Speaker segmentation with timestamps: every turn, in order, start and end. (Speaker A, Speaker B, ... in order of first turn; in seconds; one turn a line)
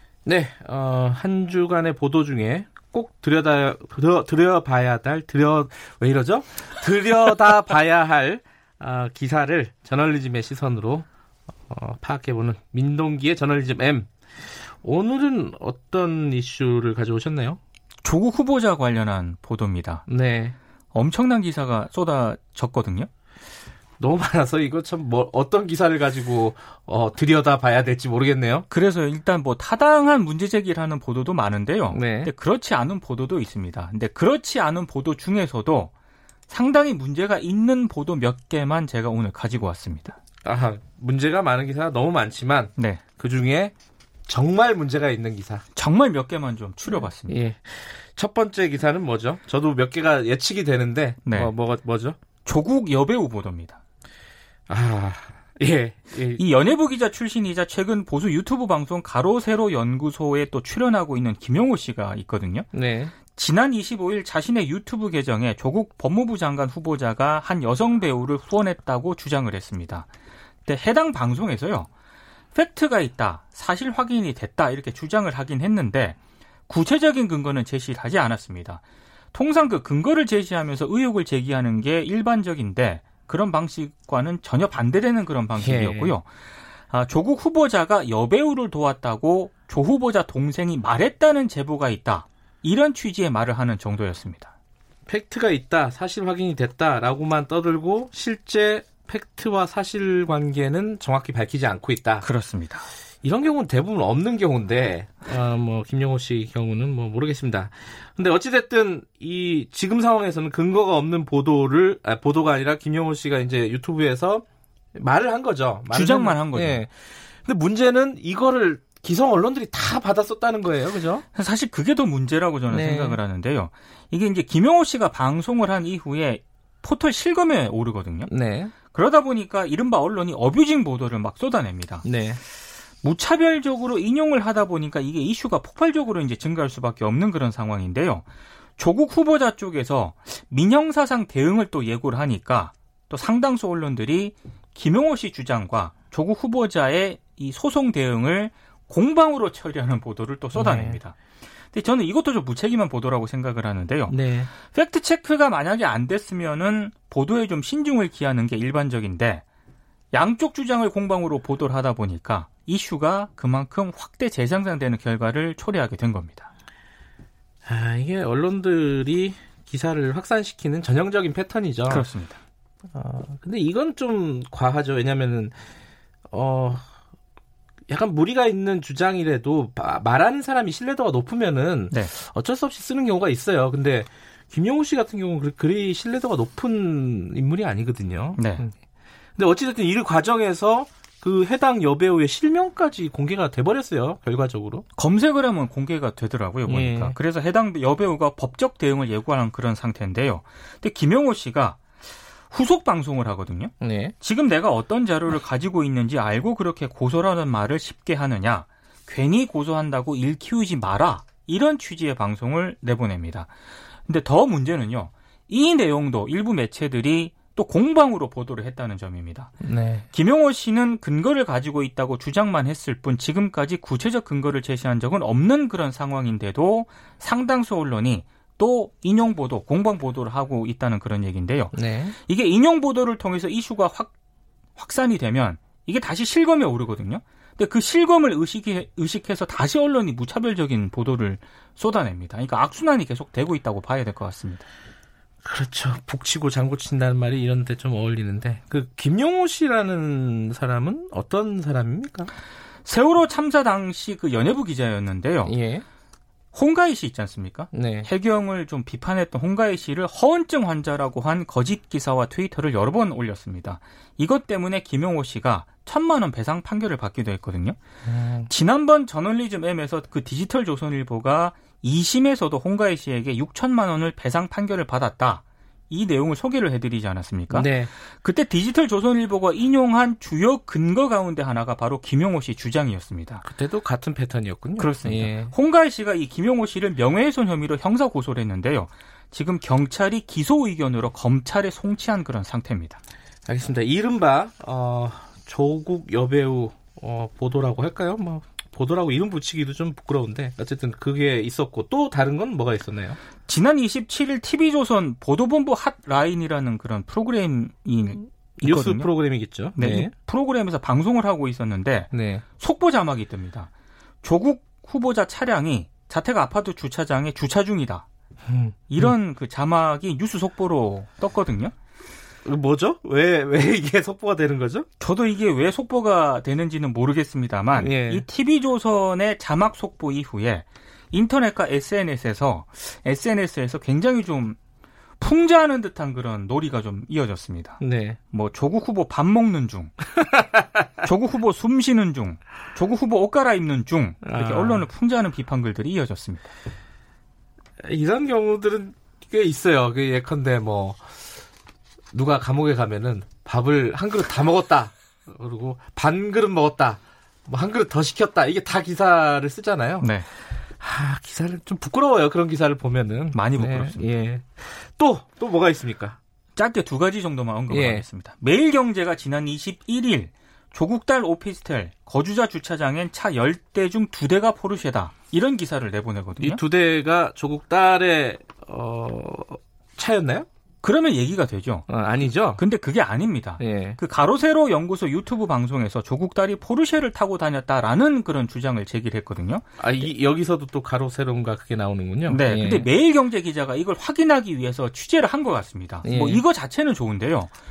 Speaker A: 0.2-11.1
Speaker A: 11.7-17.6
Speaker B: 18.0-20.0
Speaker A: 20.1-20.6
Speaker B: 20.9-23.1
Speaker A: 24.0-28.7
Speaker B: 28.7-35.9
Speaker A: 31.9-32.3
Speaker B: 36.5-40.2
Speaker A: 40.4-43.7
Speaker B: 42.8-43.0
Speaker A: 44.3-45.6
Speaker B: 45.8-47.4
Speaker A: 47.3-52.2
Speaker B: 51.2-51.5
Speaker B: 52.4-53.8
Speaker A: 54.7-56.4
Speaker B: 56.4-62.7
Speaker A: 62.7-63.1
Speaker B: 63.3-70.1
Speaker B: 70.7-71.9
Speaker B: 72.5-78.8
Speaker B: 79.3-86.2
Speaker A: 85.6-86.1
Speaker B: 86.9-94.5
Speaker A: 95.1-102.3
Speaker B: 102.2-102.8
Speaker A: 103.2-121.2
Speaker B: 115.9-116.8
Speaker B: 121.3-128.3
Speaker A: 122.7-123.2
Speaker A: 128.3-128.7
Speaker B: 128.9-132.0
Speaker A: 132.0-132.4
Speaker B: 133.0-138.2
Speaker B: 138.8-151.2
Speaker A: 150.5-151.0
Speaker B: 151.7-154.2
Speaker A: 154.1-154.5
Speaker B: 154.7-159.4
Speaker B: 160.1-166.5
Speaker A: 167.7-172.1
Speaker B: 171.9-172.4
Speaker A: 172.9-175.6
Speaker A: 176.3-176.8
Speaker A: 177.9-188.7
Speaker B: 188.4-188.7
Speaker A: 189.4-194.8
Speaker B: 195.0-201.8
Speaker A: 196.7-197.2
Speaker B: 202.5-213.5
Speaker A: 203.8-204.1
Speaker B: 214.1-219.5
Speaker A: 219.6-220.1
Speaker B: 220.1-234.1
Speaker A: 231.7-232.2
Speaker B: 234.8-244.7
Speaker A: 245.4-252.3
Speaker B: 252.8-255.6
Speaker A: 255.5-255.8
Speaker B: 256.5-267.8
Speaker A: 257.7-258.1
Speaker A: 268.1-268.5
Speaker B: 268.5-283.4
Speaker A: 277.5-277.9
Speaker A: 283.4-285.5
Speaker B: 284.8-293.0
Speaker A: 293.5-303.2
Speaker B: 303.5-309.1
Speaker A: 308.6-310.1
Speaker B: 309.8-313.7
Speaker A: 312.1-312.4
Speaker B: 314.2-318.1
Speaker A: 318.5-319.1
Speaker B: 318.9-321.7
Speaker A: 322.4-324.9
Speaker B: 325.0-334.6
Speaker A: 327.8-328.2
Speaker B: 335.2-337.8
Speaker A: 337.8-338.2
Speaker B: 338.3-340.1
Speaker B: 341.0-346.5
Speaker A: 344.2-344.9
Speaker A: 347.8-351.0
Speaker A: 352.1-360.1
Speaker B: 360.0-360.3
Speaker A: 360.8-366.2
Speaker B: 363.3-364.1
Speaker B: 366.6-376.6
Speaker A: 367.7-368.1
Speaker A: 376.4-380.5
Speaker B: 380.8-381.9
Speaker A: 381.9-382.6
Speaker B: 382.6-389.6
Speaker A: 383.6-384.0
Speaker A: 389.8-392.9
Speaker B: 392.3-397.5
Speaker A: 396.0-396.4